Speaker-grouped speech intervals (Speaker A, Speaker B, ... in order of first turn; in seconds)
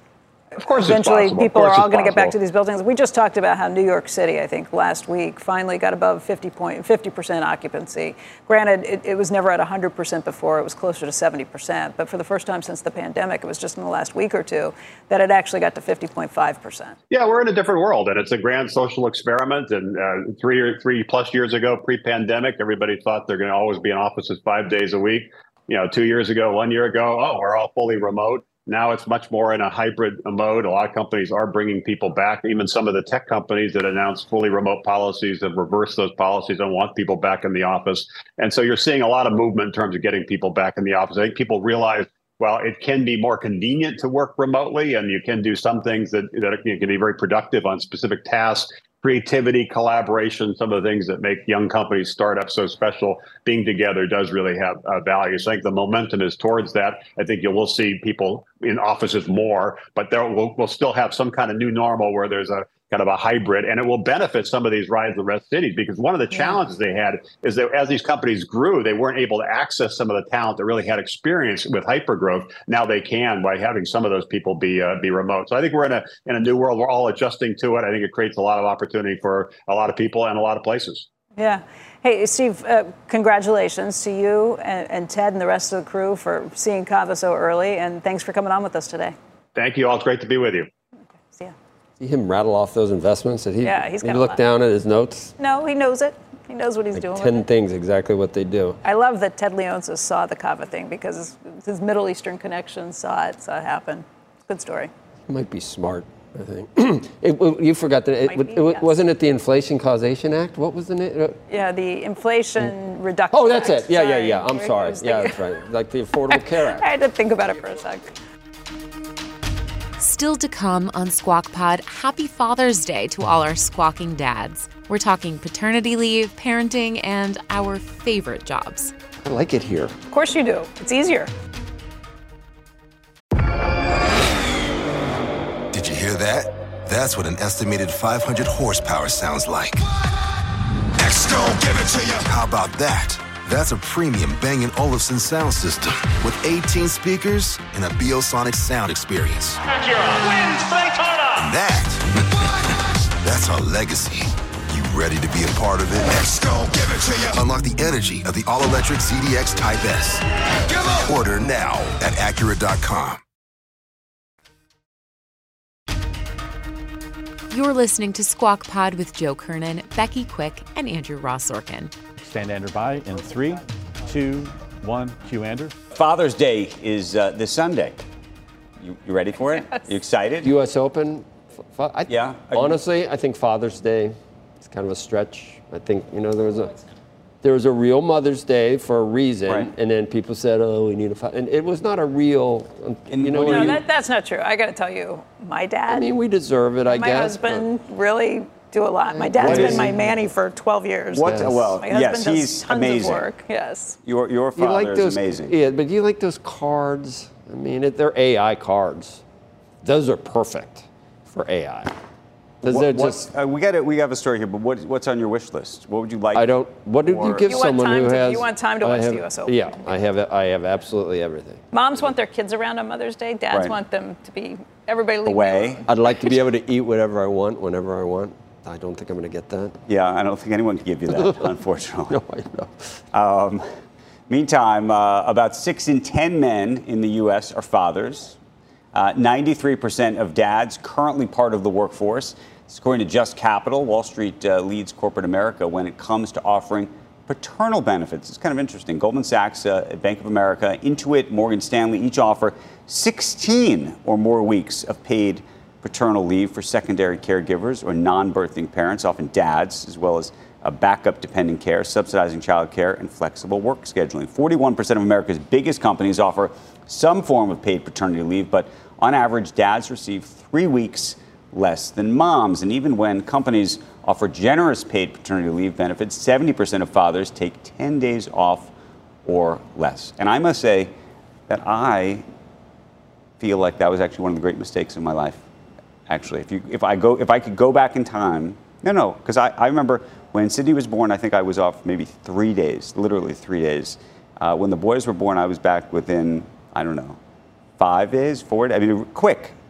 Speaker A: 0.6-2.3, 17.1-81.1, 89.5-90.7
Speaker B: 0.7-16.9, 81.4-89.1, 93.6-94.4, 95.4-97.5, 98.8-104.9, 108.3-108.9, 111.5-115.4, 116.3-118.1, 130.1-131.3, 193.4-196.1, 196.9-203.9, 217.4-219.7, 221.7-225.9
Speaker C: 92.0-95.3, 96.9-98.8, 105.3-111.4, 113.3-116.8, 129.2-129.9, 180.4-186.7, 187.4-193.8, 195.9-197.7, 199.1-200.2, 201.2-201.8, 204.6-209.2, 209.8-211.9, 212.6-213.3, 216.3-221.6, 225.8-229.8, 231.1-231.5, 232.1-232.8
Speaker D: 120.0-128.9, 167.5-171.9
Speaker E: 135.7-139.8, 141.0-152.0, 153.2-160.2, 160.9-163.2
Speaker F: 172.2-175.7
Speaker G: 175.9-178.0, 178.8-180.5, 182.1-182.8, 193.1-193.8, 199.4-199.9, 201.1-203.3, 204.0-205.5, 212.6-217.6, 223.5-223.8, 225.2-225.8, 229.9-232.2, 233.1-233.7, 234.3-238.4, 238.9-278.7, 279.2-280.9, 281.5-282.2, 283.4-285.4, 286.1-297.2, 297.8-299.5